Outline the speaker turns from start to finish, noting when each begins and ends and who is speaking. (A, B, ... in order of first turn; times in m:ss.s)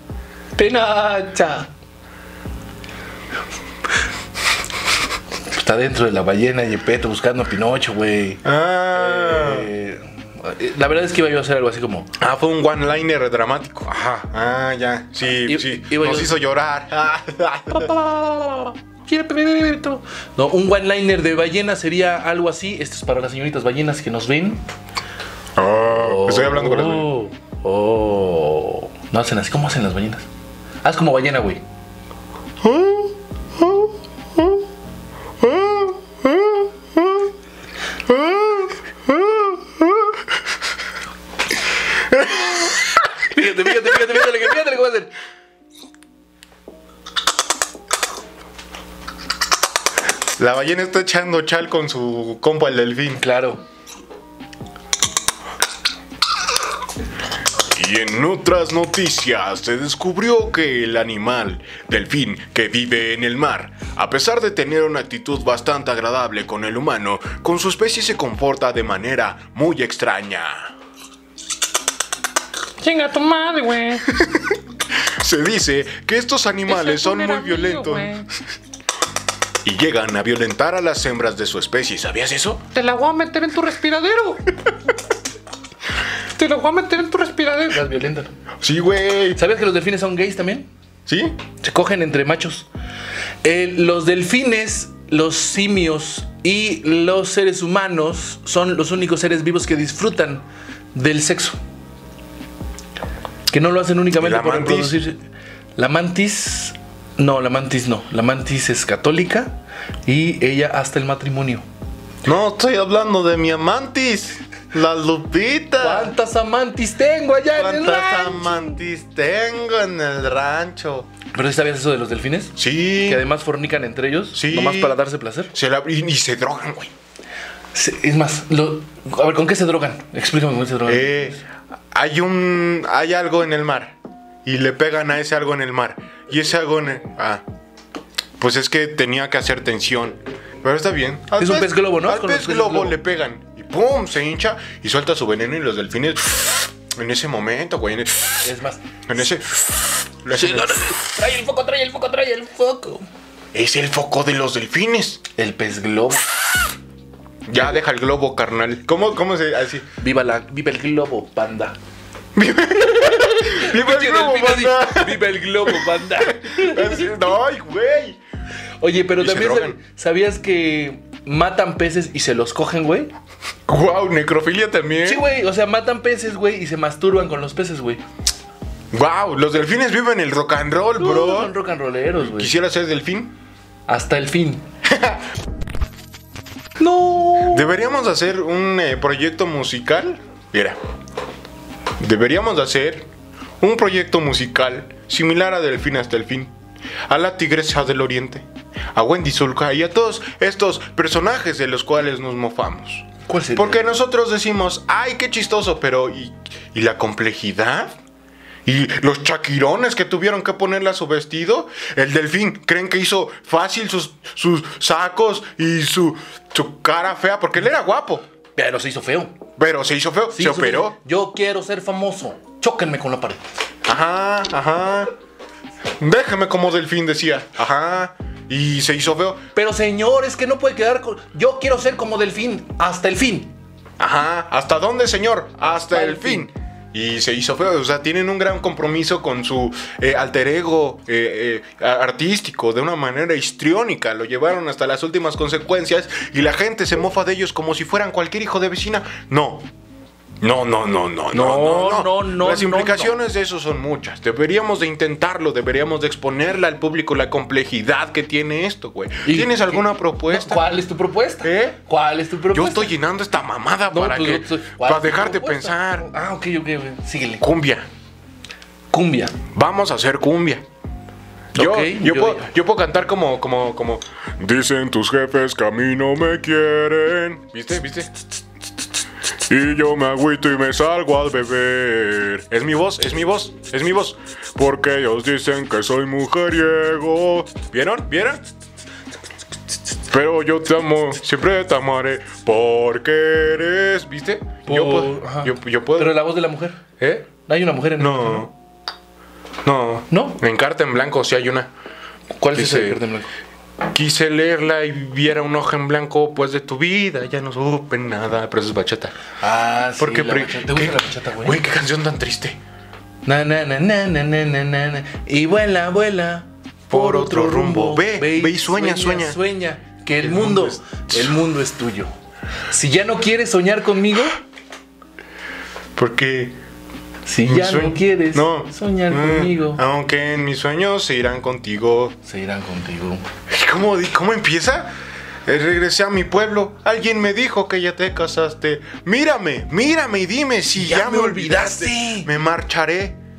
0:00.5-0:01.7 A
0:05.5-0:12.1 A
0:08.4-0:09.7 B
0:12.2-0:17.9 B
0:13.9-0:14.3 A
0:15.4-0:16.4 A
0:17.7-0:24.6 A
0:25.6-0:27.1 B
0:25.9-0:30.3 A
0:30.8-0:31.6 A
0:32.6-0:34.6 B
0:35.4-0:37.3 B
0:38.0-0:40.2 B
0:42.1-0:43.0 B
0:43.3-0:45.1 A
0:50.4-0:53.2 B
0:53.2-0:53.6 A
0:57.7-1:10.8 B
1:12.8-1:14.2 C
1:14.1-1:18.1 B
1:16.7-1:18.3 C
1:19.6-1:22.6 B
1:22.7-1:24.5 C
1:26.3-1:27.8 C
1:27.7-1:28.3 A
1:28.6-1:29.4 B
1:29.3-1:30.7 A
1:31.1-1:31.4 B
1:31.6-1:32.7 A
1:33.4-1:41.6 A
1:43.5-1:45.2 A
1:44.1-1:45.0 B
1:45.8-1:51.6 A
1:52.2-1:56.1 B
1:55.8-1:58.8 A
1:57.5-2:01.1 B
2:01.3-2:05.5 A
2:02.6-2:03.2 B
2:04.3-2:05.0 B
2:05.5-2:06.9 B
2:07.7-2:11.4 A
2:10.8-2:11.4 B
2:11.9-2:17.4 B
2:18.4-2:28.5 B
2:21.4-2:23.0 A
2:28.4-2:28.8 A
2:29.1-2:29.7 B
2:30.2-2:30.9 B
2:30.3-2:33.0 A
2:33.5-2:35.2 B
2:35.4-2:36.3 A
2:37.4-2:39.8 B
2:40.0-2:41.8 A
2:42.3-2:48.2 B
2:43.0-2:47.1 A
2:48.8-2:53.1 A
2:49.2-2:49.8 B
2:53.7-2:55.2 B
2:55.0-2:58.0 A
2:58.9-3:01.5 B
3:01.0-3:02.5 A
3:02.2-3:03.3 B
3:03.9-3:04.6 A
3:04.8-3:05.2 B
3:06.8-3:07.7 A
3:07.4-3:10.8 B
3:12.0-3:13.1 B
3:13.6-3:16.5 B
3:17.1-3:27.9 B
3:23.2-3:23.8 A
3:28.6-3:38.2 B
3:38.6-3:39.4 A
3:39.6-3:41.0 B
3:40.3-3:43.4 A
3:43.8-3:45.1 B
3:46.0-3:49.4 B
3:49.6-3:53.5 A
3:54.0-4:09.7 B
3:55.6-3:56.5 A
4:10.4-4:20.7 B
4:11.3-4:13.1 A
4:19.2-4:22.9 A
4:21.4-4:21.8 B
4:22.5-4:26.1 B
4:23.9-4:27.4 A
4:27.4-4:27.9 B
4:28.9-4:29.4 A
4:29.5-4:30.6 B
4:31.5-4:32.5 A
4:31.5-4:38.1 B
4:39.4-4:48.4 B
4:50.1-4:56.3 B
4:54.6-4:56.8 A
4:57.0-4:57.3 B
4:57.4-4:58.5 A
4:58.0-4:58.5 B
4:59.6-5:01.7 B
5:00.1-5:00.4 A
5:02.4-5:03.3 A
5:02.5-5:03.0 B
5:03.9-5:09.2 B
5:09.4-5:11.6 A
5:10.0-5:12.6 B
5:13.2-5:22.1 A
5:16.9-5:19.4 B
5:20.2-5:21.4 B
5:22.7-5:24.4 A
5:26.0-5:26.6 B
5:27.2-5:29.8 A
5:27.4-5:32.2 B
5:32.2-5:33.3 A
5:33.5-5:34.9 B
5:35.4-5:43.2 B
5:40.8-5:42.3 A